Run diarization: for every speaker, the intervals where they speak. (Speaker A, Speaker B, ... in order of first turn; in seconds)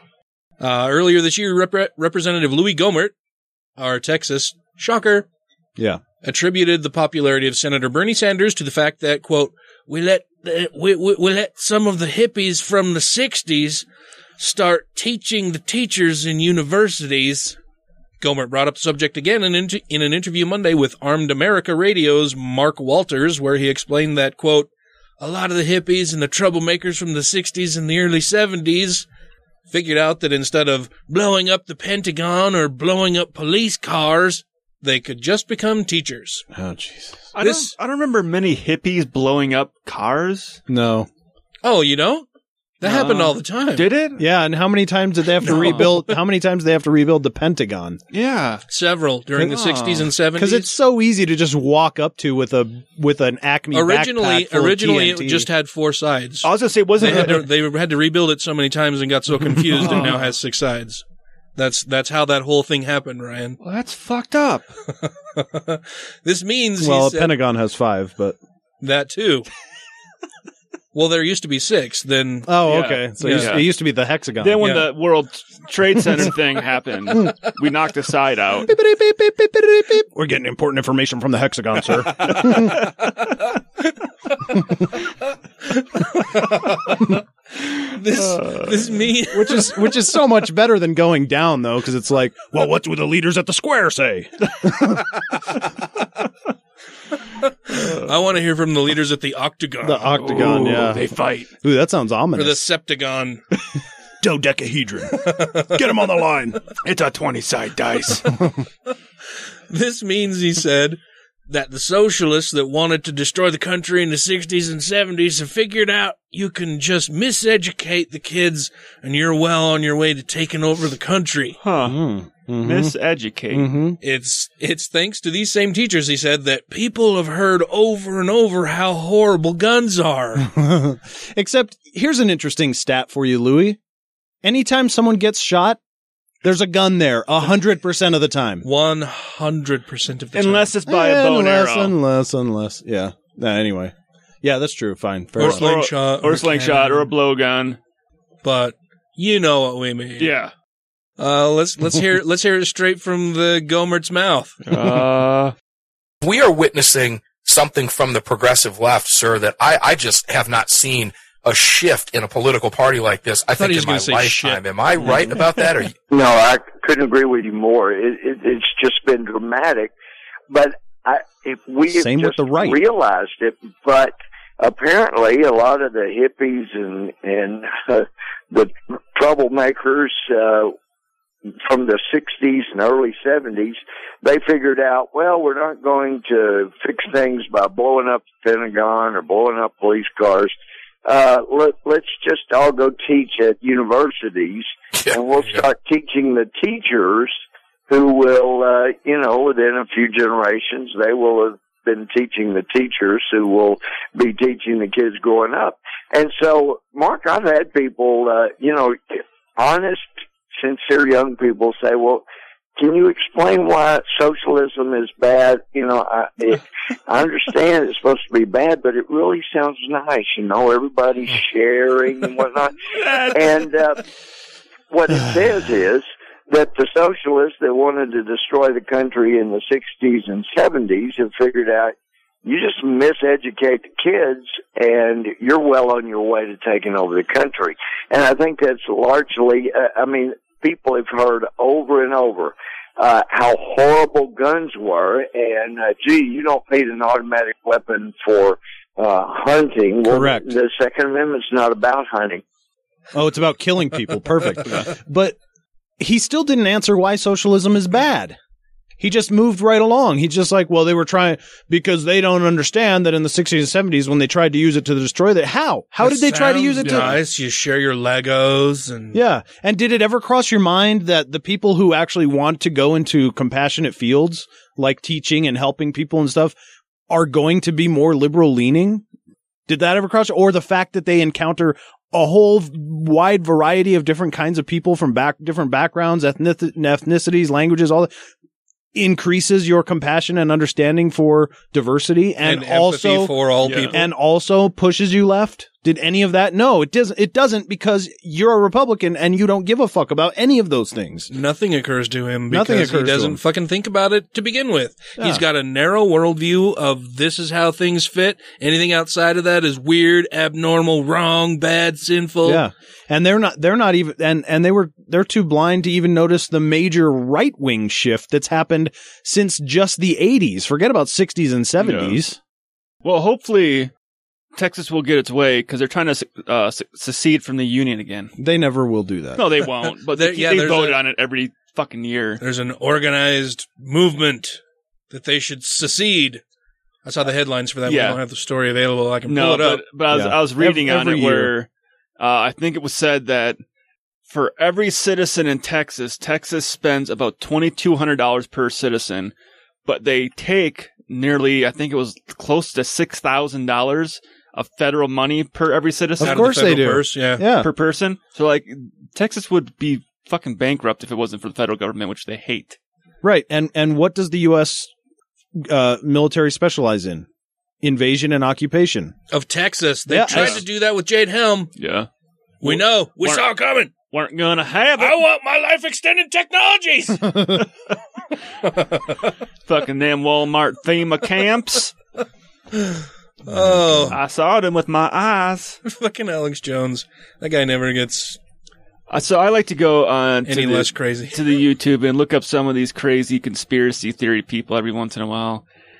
Speaker A: 0.6-3.1, 3.8-5.3, 6.2-13.9, 14.4-17.6, 18.2-24.7, 25.2-29.1, 29.7-36.5, 37.4-37.7, 41.6-42.3, 42.8-43.9, 45.4-46.0, 48.7-50.7, 53.7-61.0, 61.6-63.6, 65.0-67.3, 68.8-69.5, 70.9-73.6, 85.8-87.2, 87.9-89.9, 97.5-100.7, 102.4-103.4, 105.2-105.7, 109.7-121.6, 124.0-130.5, 138.6-140.7, 145.4-147.1, 148.4-150.3, 151.2-154.6, 163.6-165.2, 266.0-269.2, 292.4-294.0, 301.3-312.6, 330.1-331.0, 332.4-334.6, 335.1-336.4, 337.1-339.8, 356.2-357.4, 369.3-371.7, 372.6-373.9, 375.0-377.3, 382.8-384.2, 385.8-388.4, 390.5-391.4
Speaker B: 36.5-37.3, 40.7-41.1, 44.2-48.0, 50.4-55.5, 59.7-60.1, 66.8-68.4, 72.5-74.6, 78.6-82.9, 89.3-95.1, 99.8-101.1, 101.6-102.6, 104.2-105.2, 105.7-106.6, 121.8-122.9, 123.5-124.0, 130.4-133.8, 134.4-135.8, 136.4-138.7, 140.9-145.7, 171.9-172.8, 250.1-250.5, 253.1-255.4, 256.0-258.4, 259.0-267.2, 269.1-276.6, 277.1-279.0, 279.7-288.1, 288.9-301.3, 302.5-303.4, 305.2-305.4, 312.4-322.4, 328.4-329.5, 340.1-341.5, 356.2-357.7, 363.2-364.9, 365.6-367.3, 367.8-369.1, 370.1-370.6, 377.3-377.6, 383.5-384.2
Speaker C: 37.4-40.6, 42.8-44.2, 45.5-45.9, 48.1-48.6, 49.4-50.1, 56.4-57.5, 59.8-60.2, 63.6-64.7, 72.7-73.7, 74.4-78.7, 88.2-88.9, 100.2-101.5, 106.8-108.3, 121.6-122.0, 122.6-123.8, 140.3-141.9, 145.4-147.8, 150.2-150.5, 154.7-155.5, 222.9-223.7, 266.8-267.1, 293.6-293.9, 321.8-322.2, 323.0-323.9, 324.6-328.3, 329.4-332.4, 337.9-338.2, 339.3-341.7, 342.2-343.6, 344.3-349.3, 349.9-356.7, 357.6-362.8, 370.3-370.6, 371.8-372.1, 372.6-375.2, 379.7-381.9, 384.1-385.8, 389.1-395.6
Speaker D: 156.2-165.9, 195.0-195.6
Speaker E: 166.1-169.9, 170.5-180.8, 181.6-212.2, 212.8-222.7, 223.3-224.0, 224.9-252.4